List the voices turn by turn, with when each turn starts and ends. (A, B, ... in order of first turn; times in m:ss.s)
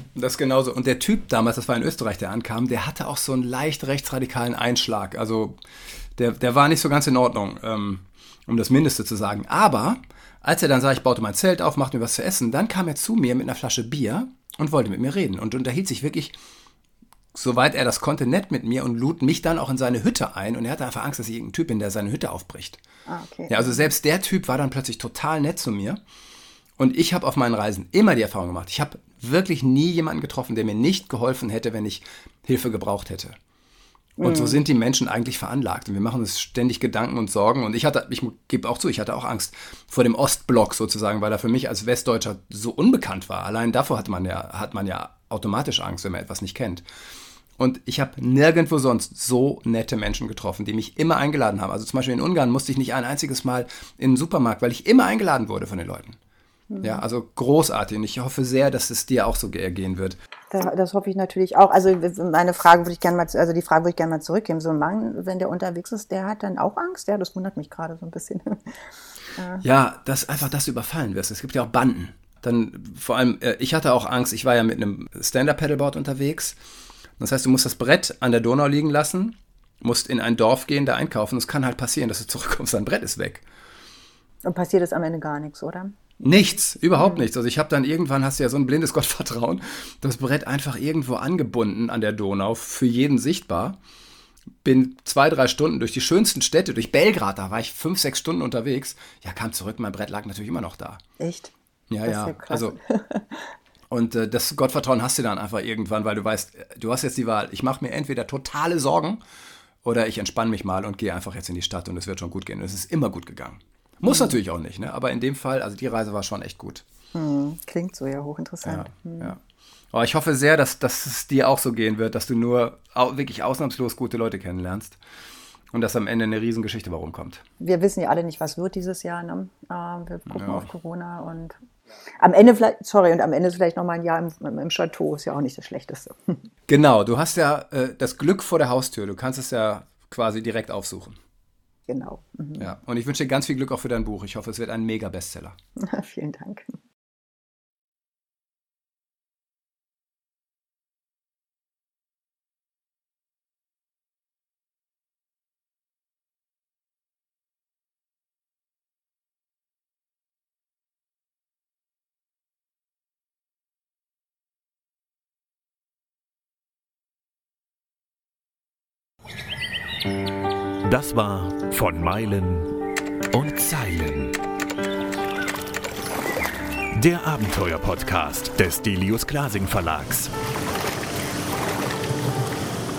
0:00.1-0:05.6 A
0:06.2-0:16.4 A
0:17.3-0:22.8 A
0:23.1-0:23.9 B
0:23.5-0:26.0 A
0:26.8-0:33.4 A
0:34.2-0:46.8 A
0:34.2-0:34.6 B
0:47.6-0:56.2 A
0:56.7-0:57.0 B
0:56.8-1:00.2 A
1:00.5-1:08.8 B
1:09.3-1:09.6 B
1:09.6-1:16.6 A
1:17.2-1:23.4 A
1:24.4-1:26.0 B
1:26.2-1:33.8 A
1:27.0-1:27.2 B
1:34.6-1:41.0 A
1:41.2-1:41.5 B
1:41.9-1:42.8 A
1:42.0-1:43.5 B
1:43.9-1:49.2 A
1:49.8-1:56.8 A
1:54.0-1:54.4 B
1:57.1-1:59.4 B
1:58.6-1:59.4 A
1:59.9-2:05.0 A
2:05.7-2:07.4 A
2:07.6-2:11.6 B
2:10.3-2:10.7 A
2:12.2-2:16.4 B
2:16.7-2:21.2 A
2:21.9-2:22.7 B
2:22.6-2:25.6 A
2:25.8-2:26.8 B
2:50.8-2:52.7 C
2:53.3-2:54.4 C
2:56.9-3:00.3 C